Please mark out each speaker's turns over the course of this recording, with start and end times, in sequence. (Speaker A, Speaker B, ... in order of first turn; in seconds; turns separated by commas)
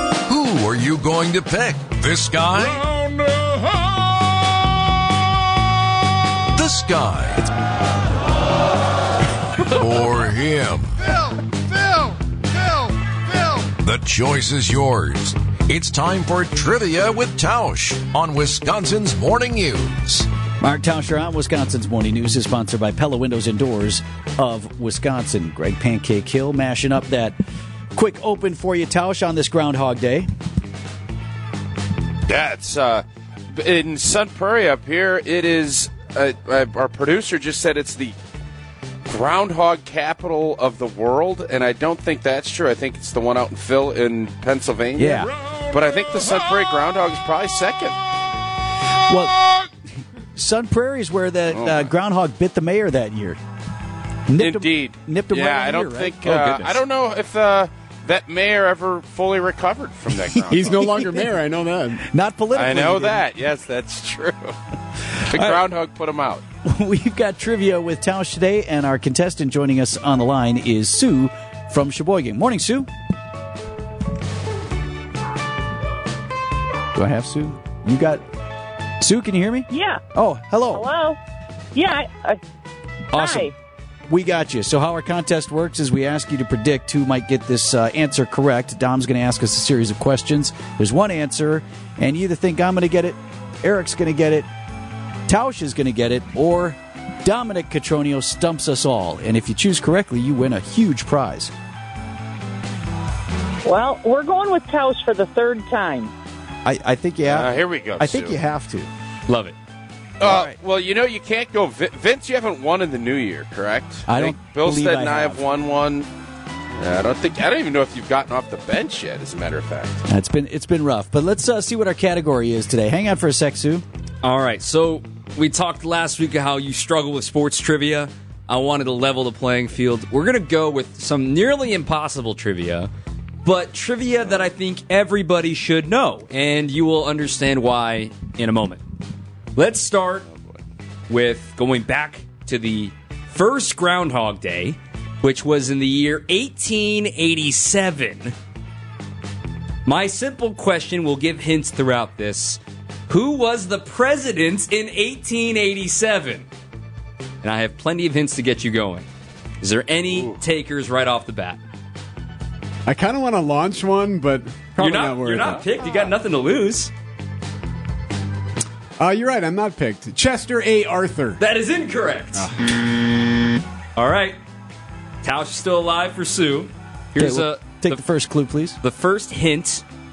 Speaker A: 0.2-3.0, Speaker A: 6.5-7.5, Speaker A: 9.6-11.0, Speaker A: 13.5-20.3, Speaker B: 20.6-27.3, Speaker B: 27.9-30.3, Speaker C: 32.3-38.1, Speaker C: 39.0-47.9, Speaker B: 45.0-45.3, Speaker B: 49.1-49.3, Speaker B: 50.4-53.4, Speaker C: 51.5-51.9, Speaker B: 54.3-56.8, Speaker C: 54.4-60.8, Speaker D: 60.5-62.0, Speaker B: 60.6-61.2, Speaker B: 62.1-63.2, Speaker C: 62.5-64.5, Speaker C: 65.2-66.4, Speaker B: 65.3-65.6, Speaker B: 66.6-72.9, Speaker B: 77.0-78.2, Speaker B: 79.0-80.8, Speaker E: 79.7-80.0, Speaker E: 80.7-81.2, Speaker E: 81.7-82.4, Speaker B: 83.1-83.5, Speaker E: 83.1-83.5, Speaker B: 84.1-94.5, Speaker B: 95.3-101.5, Speaker E: 103.6-106.1, Speaker B: 106.6-108.9, Speaker C: 107.3-108.4, Speaker F: 109.3-109.5, Speaker C: 110.2-116.1, Speaker B: 110.2-110.5, Speaker B: 114.1-115.4, Speaker C: 116.8-120.0, Speaker B: 120.1-123.8, Speaker F: 124.2-132.9, Speaker F: 133.4-138.8, Speaker F: 139.5-140.2, Speaker F: 141.1-148.3, Speaker F: 149.8-156.4, Speaker F: 157.4-159.1, Speaker F: 159.6-161.6, Speaker C: 160.1-160.3, Speaker D: 162.8-165.6, Speaker F: 164.8-166.9, Speaker D: 169.0-171.4, Speaker F: 171.4-172.5, Speaker F: 173.9-174.4, Speaker F: 175.2-178.0, Speaker B: 177.2-178.8, Speaker F: 178.8-179.8